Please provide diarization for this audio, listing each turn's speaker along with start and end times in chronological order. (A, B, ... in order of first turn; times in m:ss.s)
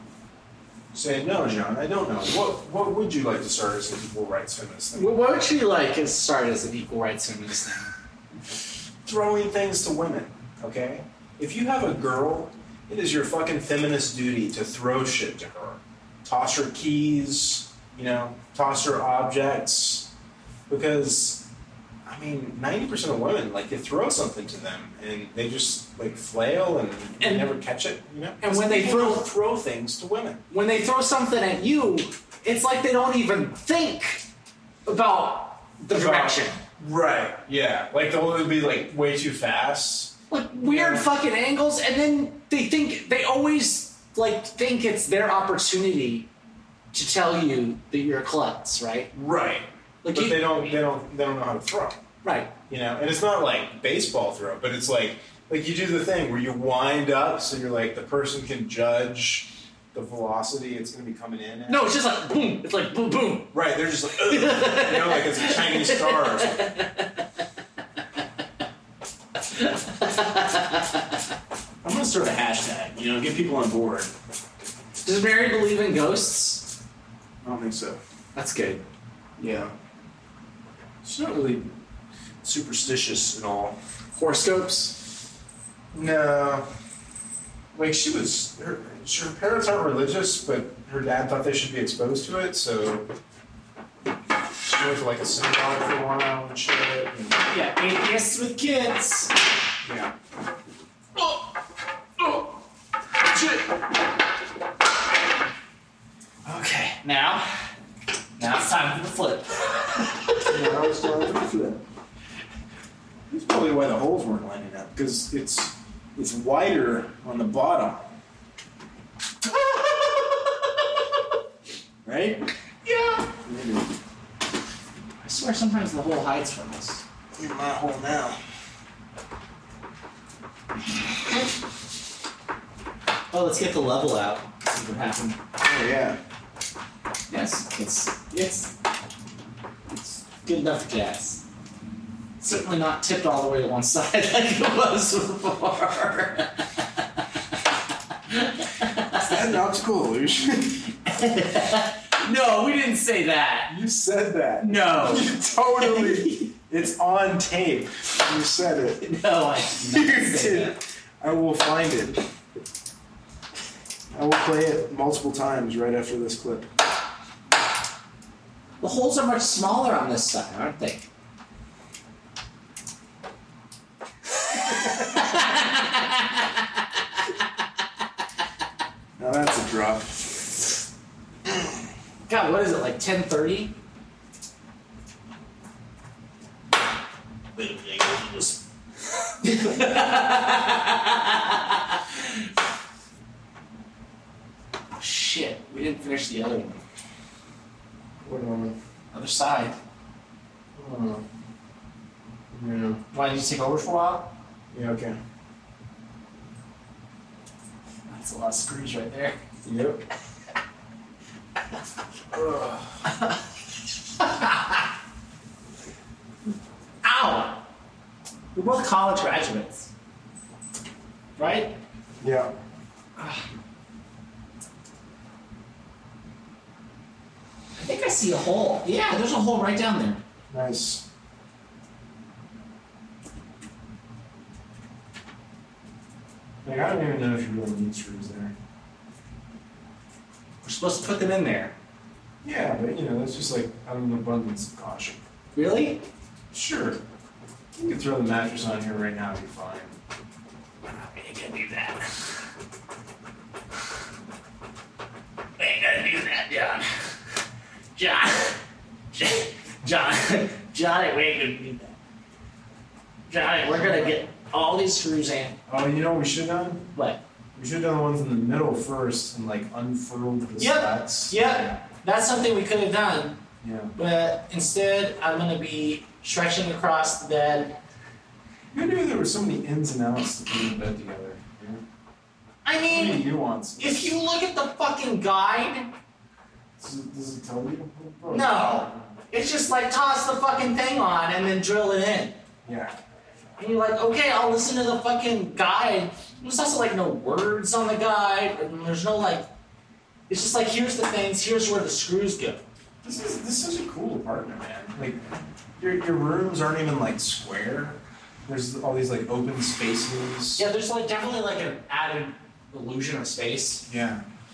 0:00.9-0:05.3 A
0:04.9-0:07.9 B
0:09.0-0:20.1 A
0:20.7-0:21.5 A
0:22.0-0:30.4 A
0:27.2-0:27.5 B
0:28.4-0:29.3 B
0:30.5-0:34.2 B
0:34.9-0:36.6 B
0:35.9-0:41.1 A
0:40.3-0:46.3 B
0:46.9-0:49.1 B
0:49.1-0:52.0 A
0:50.0-0:50.7 B
0:52.2-0:52.5 B
0:52.7-1:01.9 A
1:01.7-1:03.5 B
1:03.5-1:06.7 A
1:04.2-1:07.1 B
1:09.5-1:11.1 B
1:11.8-1:14.1 A
1:15.0-1:16.7 B
1:17.4-1:18.0 A
1:18.3-1:18.8 B
1:19.4-1:19.7 A
1:21.0-1:21.7 A
1:22.4-1:23.8 A
1:24.1-1:25.0 B
1:25.9-1:26.7 A
1:27.7-1:33.1 A
1:34.6-1:37.5 A
1:37.4-1:39.3 B
1:39.8-1:40.1 A
1:43.3-1:43.6 B
1:46.4-1:46.9 A
1:46.8-1:47.5 B
1:48.4-1:50.1 B
1:50.4-1:51.8 A
1:53.3-1:58.1 A
2:02.0-2:02.4 A
2:02.8-2:03.3 B
2:03.4-2:03.9 A
2:05.2-2:07.0 B
2:07.3-2:08.4 A
2:13.3-2:15.4 B
2:15.6-2:16.2 A
2:17.3-2:18.7 B
2:19.9-2:21.4 B
2:22.4-2:26.6 B
2:28.3-2:29.1 B
2:29.1-2:30.9 A
2:31.1-2:33.8 B
2:33.7-2:39.1 A
2:34.6-2:36.5 B
2:39.0-2:40.8 B
2:39.8-2:42.2 A
2:44.1-2:46.7 A
2:48.8-2:51.0 B
2:54.9-2:56.6 B
2:59.2-3:00.6 A
3:01.4-3:01.7 A
3:02.3-3:03.8 B
3:07.5-3:08.6 B
3:09.4-3:12.4 B
3:14.9-3:16.8 B
3:18.2-3:18.8 A
3:19.1-3:19.8 B
3:20.7-3:21.2 A
3:22.5-3:23.0 A
3:23.1-3:24.3 B
3:24.7-3:25.2 A
3:28.1-3:29.4 B
3:29.6-3:30.0 A
3:32.3-3:33.0 A
3:34.2-3:34.8 B
3:37.0-3:37.6 B
3:38.5-3:39.9 B
3:41.4-3:41.8 B
3:42.2-3:42.5 A
3:47.8-3:50.2 B
3:50.5-3:51.0 A
3:56.6-3:58.5 A
4:00.6-4:01.7 B
4:02.4-4:05.2 A
4:05.5-4:06.0 B
4:06.5-4:07.0 A
4:07.8-4:10.0 A
4:10.9-4:12.2 B
4:15.6-4:16.9 B
4:17.9-4:18.6 B
4:19.1-4:22.0 B
4:23.3-4:25.6 B
4:23.7-4:24.1 A
4:25.7-4:26.9 A
4:26.9-4:27.2 B
4:27.5-4:31.7 A
4:30.6-4:33.4 B
4:33.6-4:33.9 A
4:34.0-4:37.8 B
4:38.7-4:41.8 A
4:42.6-4:43.2 B
4:42.8-4:44.2 A
4:43.8-4:45.9 B
4:46.8-4:49.2 A
4:48.3-4:52.4 B
4:52.6-4:52.9 A
4:53.6-4:59.5 B
5:00.3-5:02.6 B
5:03.0-5:05.2 A
5:05.8-5:10.6 A
5:10.6-5:13.8 B
5:13.9-5:14.2 A